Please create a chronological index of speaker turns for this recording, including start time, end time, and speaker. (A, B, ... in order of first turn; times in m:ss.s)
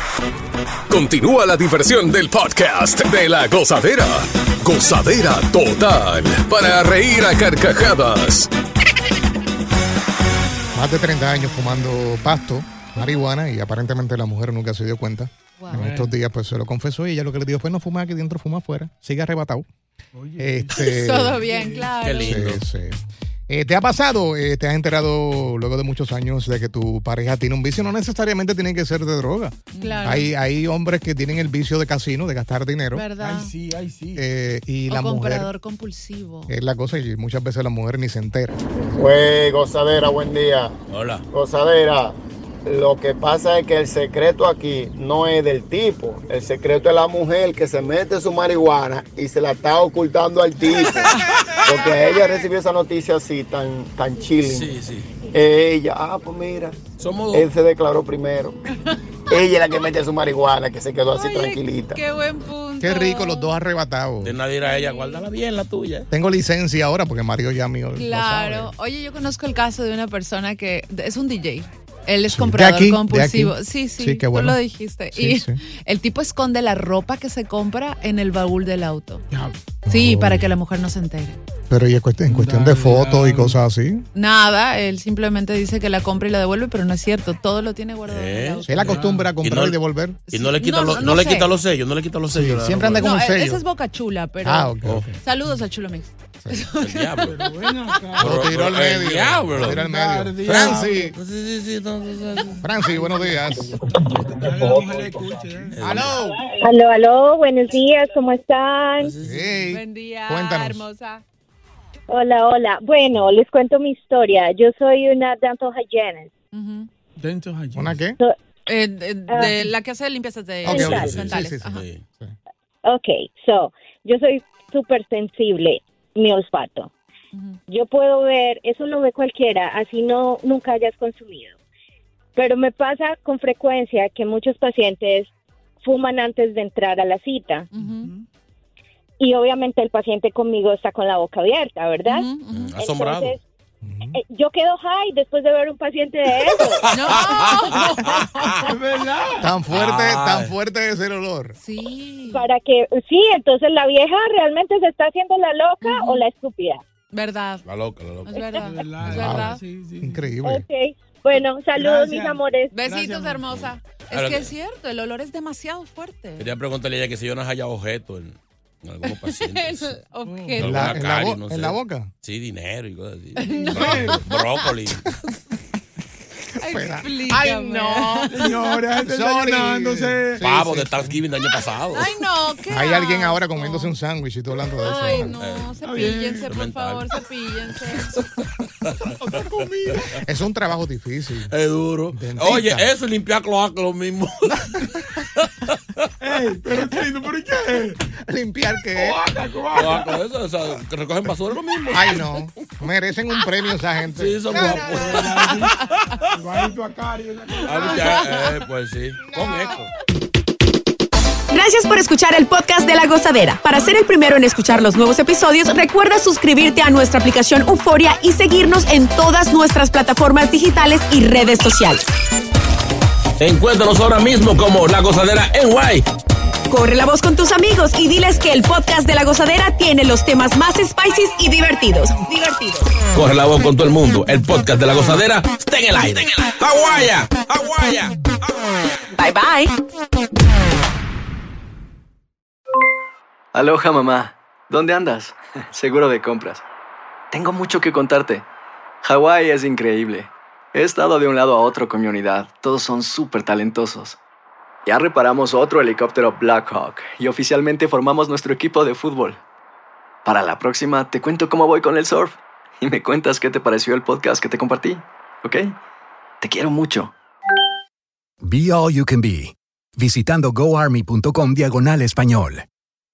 0:00.9-0:08.5 A
0:10.7-0:19.6 B
0:15.6-0:15.9 C
0:15.7-0:16.1 D
0:20.1-0:22.0 D
0:20.4-0:21.4 B
0:20.7-0:22.5 C
0:22.0-0:22.6 E
0:22.2-0:33.1 B
0:29.7-0:30.3 C
0:32.9-0:33.5 C
0:33.2-0:34.2 D
0:34.2-0:35.5 B
0:34.9-0:36.5 C
0:36.5-0:38.6 B
0:38.9-0:40.8 F
0:40.9-0:41.2 E
0:41.3-0:51.1 F
0:51.6-0:54.7 F
0:52.1-0:52.4 C
0:54.4-0:55.1 E
0:55.3-0:58.6 F
0:57.0-0:57.5 E
0:59.3-1:02.0 F
1:01.1-1:03.6 C
1:02.8-1:04.4 B
1:04.2-1:06.1 E
1:04.6-1:05.2 C
1:06.1-1:08.7 B
1:07.9-1:19.2 C
1:12.3-1:14.6 B
1:15.1-1:15.6 B
1:19.3-1:19.6 D
1:19.9-1:20.5 B
1:19.9-1:21.4 C
1:21.7-1:24.0 B
1:22.3-1:23.6 D
1:24.1-1:29.0 C
1:28.0-1:28.8 E
1:28.6-1:30.2 B
1:28.8-1:29.3 D
1:29.4-1:29.8 E
1:30.3-1:31.5 C
1:30.3-1:33.1 E
1:32.3-1:33.6 B
1:33.0-1:38.0 C
1:34.4-1:35.2 B
1:36.8-1:37.4 E
1:37.3-1:38.4 D
1:38.2-1:39.8 E
1:38.2-1:41.1 B
1:39.6-1:41.1 D
1:40.4-1:42.6 E
1:42.6-1:43.8 B
1:42.8-1:46.1 D
1:45.7-1:46.2 E
1:45.8-1:46.4 B
1:46.6-1:49.1 G
1:49.0-1:49.7 E
1:49.2-1:50.8 B
1:49.7-1:51.2 C
1:52.1-1:56.3 G
1:56.5-1:56.9 C
1:57.2-1:58.0 D
1:57.7-1:58.2 B
1:58.7-2:01.8 C
1:59.3-1:59.7 G
2:00.6-2:02.3 B
2:00.6-2:02.0 E
2:00.7-2:01.2 G
2:02.8-2:06.9 G
2:07.3-2:07.6 C
2:07.7-2:11.6 G
2:12.3-2:15.3 G
2:15.8-2:17.7 G
2:17.7-2:18.1 C
2:17.7-2:18.2 D
2:19.2-2:23.4 G
2:22.0-2:22.7 C
2:22.5-2:23.4 E
2:23.8-2:24.2 B
2:24.1-2:26.9 G
2:26.5-2:28.6 E
2:26.9-2:28.8 C
2:28.6-2:29.5 D
2:29.4-2:31.6 B
2:29.7-2:30.5 E
2:31.6-2:32.5 C
2:32.3-2:36.8 G
2:35.8-2:36.2 C
2:37.1-2:37.6 C
2:37.6-2:38.7 E
2:38.3-2:39.6 C
2:38.6-2:40.4 D
2:39.0-2:40.6 B
2:40.4-2:42.7 G
2:41.7-2:43.6 D
2:42.7-2:46.5 C
2:43.5-2:44.5 E
2:46.4-2:50.0 E
2:49.0-2:50.9 C
2:50.2-2:50.7 D
2:50.6-2:55.0 E
2:50.6-2:52.1 B
2:53.4-2:54.7 C
2:53.6-2:54.2 D
2:56.6-2:58.4 B
2:56.6-2:58.8 C
2:58.3-3:00.4 D
2:59.0-3:01.2 B
3:00.4-3:02.1 E
3:01.9-3:03.9 C
3:02.7-3:05.3 B
3:04.8-3:08.1 C
3:05.2-3:05.8 E
3:05.8-3:06.4 D
3:06.3-3:07.1 E
3:09.1-3:10.2 D
3:10.2-3:11.5 B
3:11.5-3:15.8 E
3:12.1-3:12.9 B
3:16.2-3:18.0 D
3:18.1-3:19.2 B
3:18.9-3:20.2 D
3:19.7-3:22.2 E
3:21.9-3:25.2 B
3:24.1-3:25.4 E
3:24.7-3:25.8 D
3:26.3-3:28.3 D
3:27.5-3:28.4 C
3:27.6-3:29.9 E
3:29.3-3:29.6 B
3:29.4-3:29.7 C
3:31.5-3:42.0 H
3:43.4-3:46.0 E
3:46.7-3:52.9 H
3:53.1-3:58.3 E
3:59.2-3:59.7 H
4:03.5-4:06.6 I
4:07.3-4:08.4 I
4:09.0-4:14.2 I
4:14.8-4:19.4 I
4:20.2-4:25.8 I
4:26.4-4:27.1 I
4:28.5-4:29.4 J
4:30.0-4:32.6 J